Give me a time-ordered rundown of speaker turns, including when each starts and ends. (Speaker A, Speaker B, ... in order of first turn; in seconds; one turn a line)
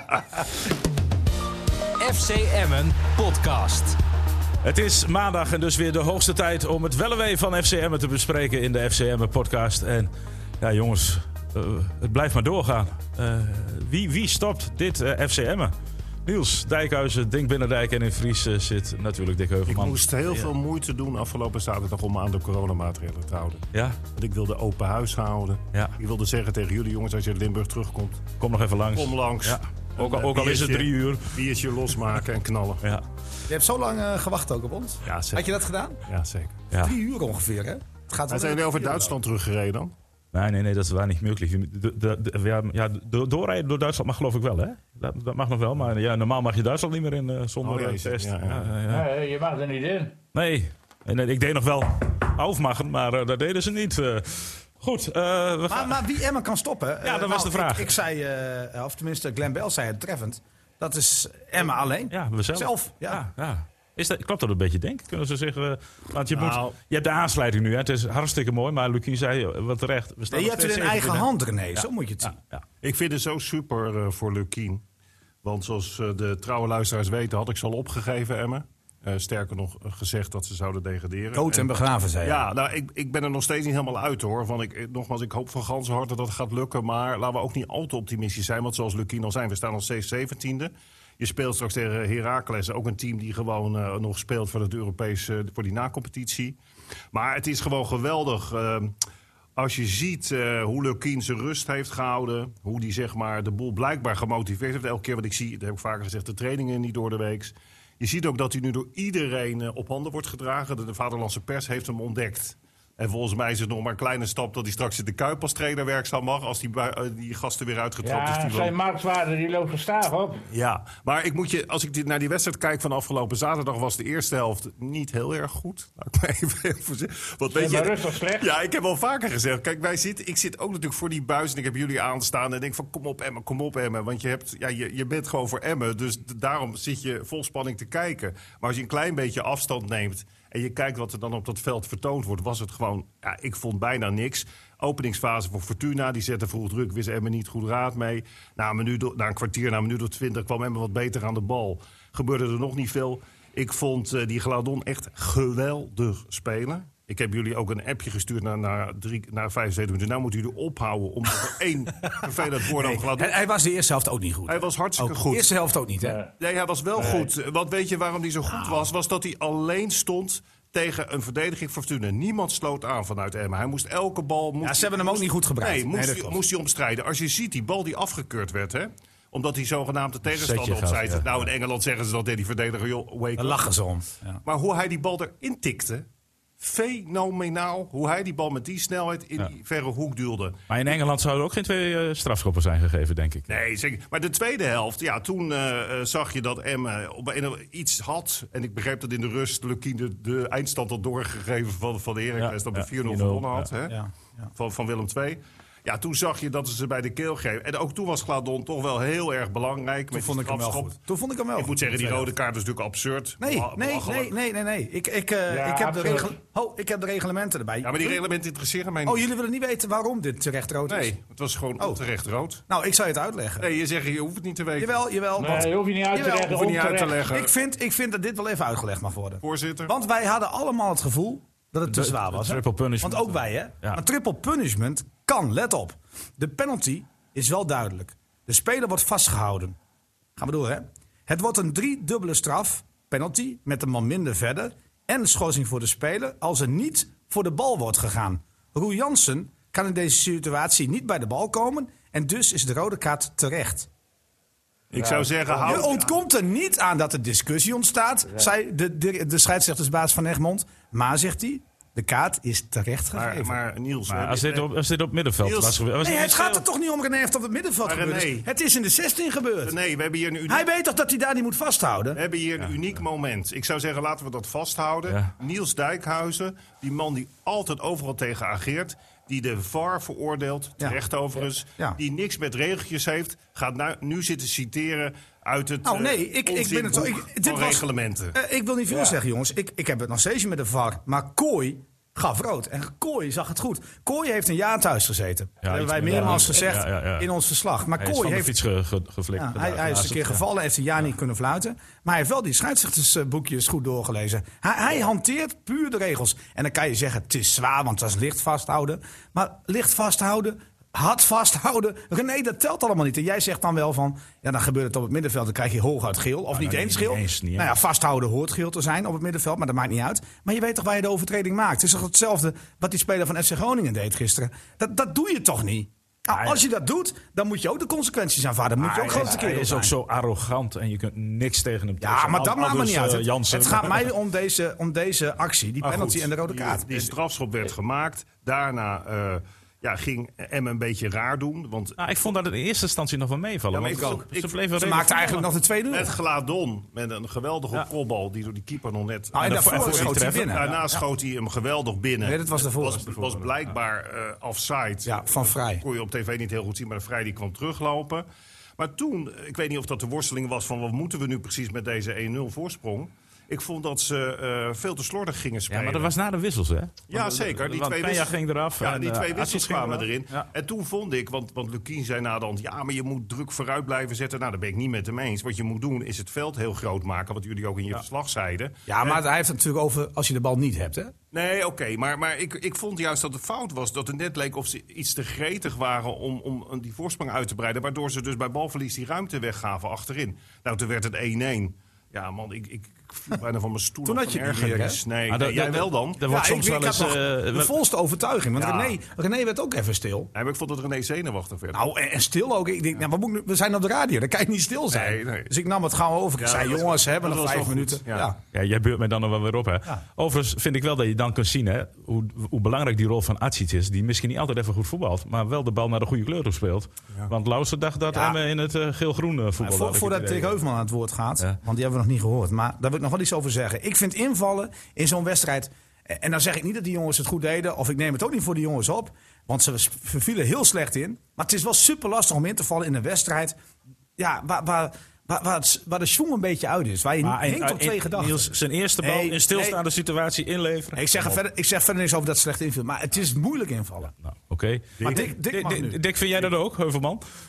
Speaker A: 2.0-4.0
Speaker B: 4.6-15.7
Speaker B: 16.2-20.5
Speaker C: 19.7-28.3
Speaker B: 23.7-24.0
Speaker B: 28.4-31.4
Speaker C: 28.9-32.9
Speaker D: 33.5-36.0
Speaker C: 35.0-35.5
Speaker C: 36.1-36.6
Speaker D: 36.7-39.1
Speaker C: 38.3-39.9
Speaker B: 40.3-49.1
Speaker C: 47.6-48.8
Speaker E: 48.9-50.1
Speaker B: 50.3-56.1
Speaker D: 55.7-63.2
Speaker B: 57.0-57.9
Speaker B: 62.1-72.6
Speaker C: 66.3-66.8
Speaker D: 70.3-72.4
Speaker C: 72.8-74.8
Speaker C: 75.4-81.7
Speaker D: 81.3-82.4
Speaker C: 82.2-96.6
Speaker C: 97.1-98.9
Speaker C: 99.6-118.7
Speaker E: 118.0-120.5
Speaker C: 120.5-163.4
Speaker E: 127.5-128.5
Speaker D: 162.7-166.2
Speaker C: 164.5-165.5
Speaker C: 166.4-183.6
Speaker D: 167.0-167.2
Speaker D: 174.6-176.4
Speaker B: 180.3-181.2
Speaker D: 183.4-184.4
Speaker C: 184.4-186.1
Speaker C: 186.6-190.6
Speaker B: 190.7-193.6
Speaker C: 193.5-204.0
Speaker B: 202.4-203.7
Speaker C: 204.6-211.0
Speaker D: 210.1-212.3
Speaker C: 211.6-214.3
Speaker D: 213.4-218.2
Speaker E: 215.5-216.4
Speaker C: 217.8-219.2
Speaker D: 219.1-221.1
Speaker C: 220.9-222.6
Speaker D: 222.7-223.7
Speaker C: 223.6-225.0
Speaker D: 224.8-226.5
Speaker E: 225.4-227.3
Speaker C: 226.2-227.5
Speaker D: 227.3-239.8
Speaker C: 229.4-229.9
Speaker B: 231.9-234.0
Speaker D: 240.4-253.9
Speaker C: 254.9-256.1
Speaker E: 254.9-255.9
Speaker D: 255.6-263.6
Speaker C: 263.1-264.7
Speaker B: 264.1-266.6
Speaker C: 265.4-265.8
Speaker D: 266.0-269.8
Speaker C: 267.8-268.4
Speaker C: 269.6-270.6
Speaker D: 270.5-272.2
Speaker C: 272.1-288.4
Speaker D: 285.9-298.5
Speaker E: 288.9-289.2
Speaker B: 295.6-297.3
Speaker E: 296.1-296.8
Speaker B: 298.0-300.4
Speaker D: 299.4-329.9
Speaker B: 316.5-317.7
Speaker B: 326.3-326.6
Speaker B: 328.8-334.1
Speaker D: 332.0-337.1
Speaker C: 335.8-342.0
Speaker B: 342.0-345.5
Speaker C: 343.7-345.0
Speaker D: 344.8-346.1
Speaker C: 345.9-358.2
Speaker D: 349.3-351.0
Speaker B: 349.4-350.7
Speaker D: 352.2-353.2
Speaker D: 355.1-355.8
Speaker C: 358.8-366.1
Speaker B: 365.7-370.5
Speaker C: 367.1-379.2
Speaker D: 378.9-381.1
Speaker C: 381.3-396.2
Speaker D: 394.0-395.0
Speaker B: 395.3-397.7
Speaker D: 396.3-400.3
Speaker C: 398.6-399.0
Speaker C: 400.3-401.9
Speaker D: 401.7-408.4
Speaker C: 404.9-405.5
Speaker C: 406.4-408.3
Speaker B: 408.5-420.5
Speaker D: 418.1-418.4
Speaker D: 419.6-433.6
Speaker D: 434.2-439.8
Speaker B: 437.2-441.4
Speaker D: 440.9-444.1
Speaker B: 444.2-447.2
Speaker C: 445.0-445.3
Speaker D: 445.0-446.0